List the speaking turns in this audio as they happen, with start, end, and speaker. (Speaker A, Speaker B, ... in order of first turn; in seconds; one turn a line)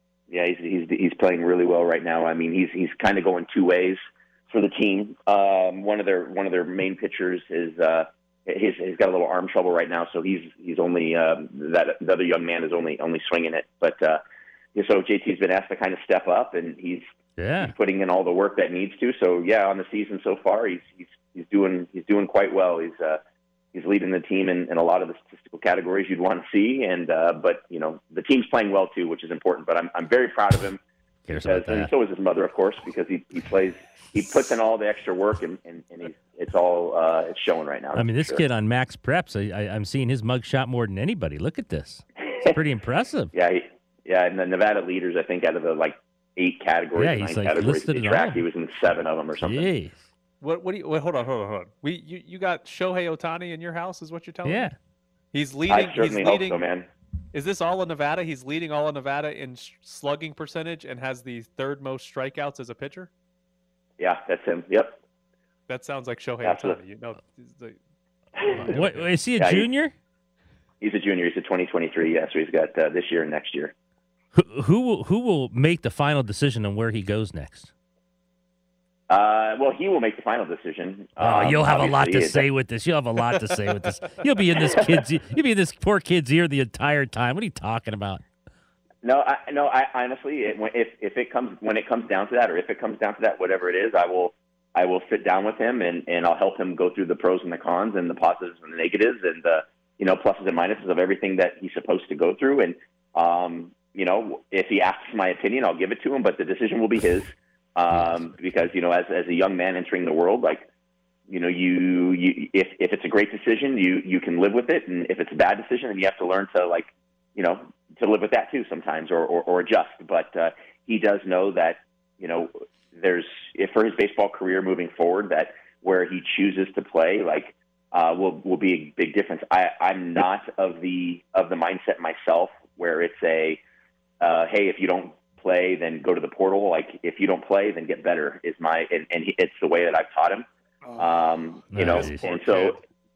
Speaker A: 0.3-14.2
Speaker A: 14.7-17.1
Speaker B: 17.4-17.7
Speaker A: 17.6-23.2
Speaker A: 23.7-30.8
Speaker B: 31.3-31.9
Speaker A: 31.4-38.4
Speaker B: 37.9-43.3
Speaker A: 42.3-42.6
Speaker A: 43.3-49.7
Speaker B: 47.0-48.4
Speaker B: 49.4-50.0
Speaker C: 50.4-54.7
Speaker B: 54.4-54.7
Speaker C: 55.3-56.6
Speaker A: 55.7-56.9
Speaker C: 57.3-63.1
Speaker A: 64.0-65.0
Speaker C: 65.7-67.8
Speaker A: 66.4-66.8
Speaker B: 68.5-69.9
Speaker C: 68.6-69.1
Speaker A: 69.4-69.7
Speaker A: 70.8-73.7
Speaker B: 74.3-77.7
Speaker A: 79.1-82.5
Speaker B: 81.2-88.2
Speaker A: 89.0-110.7
Speaker B: 107.9-108.2
Speaker A: 111.3-133.6
Speaker A: 134.2-140.4
Speaker A: 141.0-142.8
Speaker B: 141.7-142.4
Speaker C: 141.7-142.8